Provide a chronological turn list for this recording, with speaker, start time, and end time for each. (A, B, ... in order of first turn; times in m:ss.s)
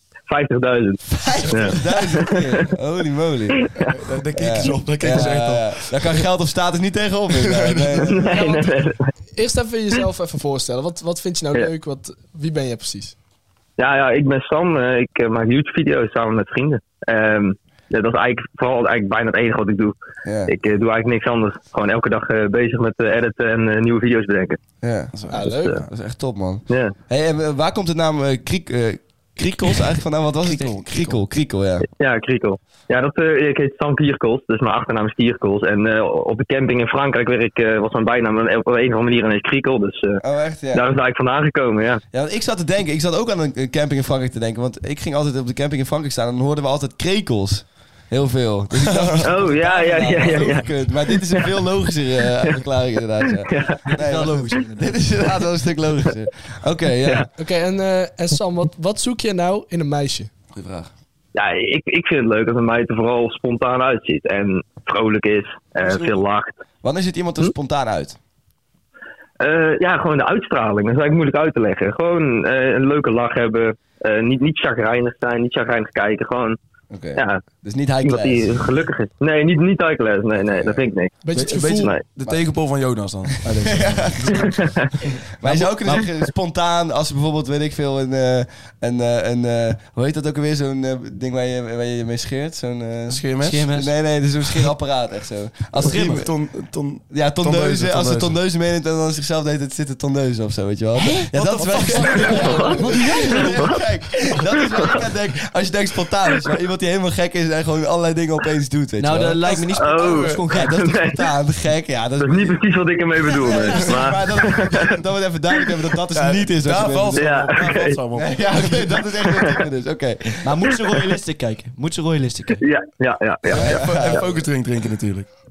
0:00.3-0:02.6 A
0:01.1-0:08.4 B
0:03.6-0:03.9 A
0:04.0-0:06.2 C
0:07.4-0:08.1 C
0:08.0-0:09.1 A
0:08.3-0:08.8 D
0:09.3-0:13.2 D
0:13.8-0:24.6 A
0:20.2-0:20.5 B
0:24.8-0:25.2 B
0:25.1-0:25.8 C
0:25.3-0:25.8 D
0:25.8-0:31.9 B
0:26.7-0:27.0 A
0:30.5-0:31.2 C
0:32.0-0:42.0 A
0:40.2-0:40.9 B
0:42.1-0:57.3 B
0:48.8-0:49.3 C
0:49.2-0:51.6 A
0:53.3-0:53.8 A
0:53.9-0:55.2 E
0:57.4-1:00.3 D
1:00.6-1:00.9 B
1:01.4-1:06.6 A
1:05.8-1:06.2 B
1:06.8-1:08.2 B
1:09.4-1:16.6 A
1:16.9-1:18.9 B
1:17.2-1:17.4 A
1:18.0-1:22.1 A
1:20.4-1:20.8 B
1:21.2-1:21.9 D
1:21.3-1:24.6 C
1:23.6-1:24.6 B
1:24.3-1:24.9 A
1:25.4-1:36.3 B
1:25.4-1:26.0 C
1:33.1-1:33.7 C
1:33.4-1:33.9 E
1:35.8-1:38.4 C
1:37.1-1:49.7 B
1:41.0-1:43.7 E
1:41.3-1:43.6 C
1:42.4-1:43.8 A
1:44.7-1:45.0 A
1:49.0-1:50.8 E
1:49.4-1:50.4 C
1:49.8-1:51.2 A
1:50.3-1:52.6 B
1:52.2-1:55.0 A
1:53.3-1:57.5 B
1:53.5-1:53.8 E
1:56.1-1:59.0 C
1:57.1-1:58.0 A
1:58.2-2:00.5 B
2:00.4-2:02.6 E
2:02.6-2:04.2 A
2:03.5-2:05.3 C
2:03.5-2:04.4 B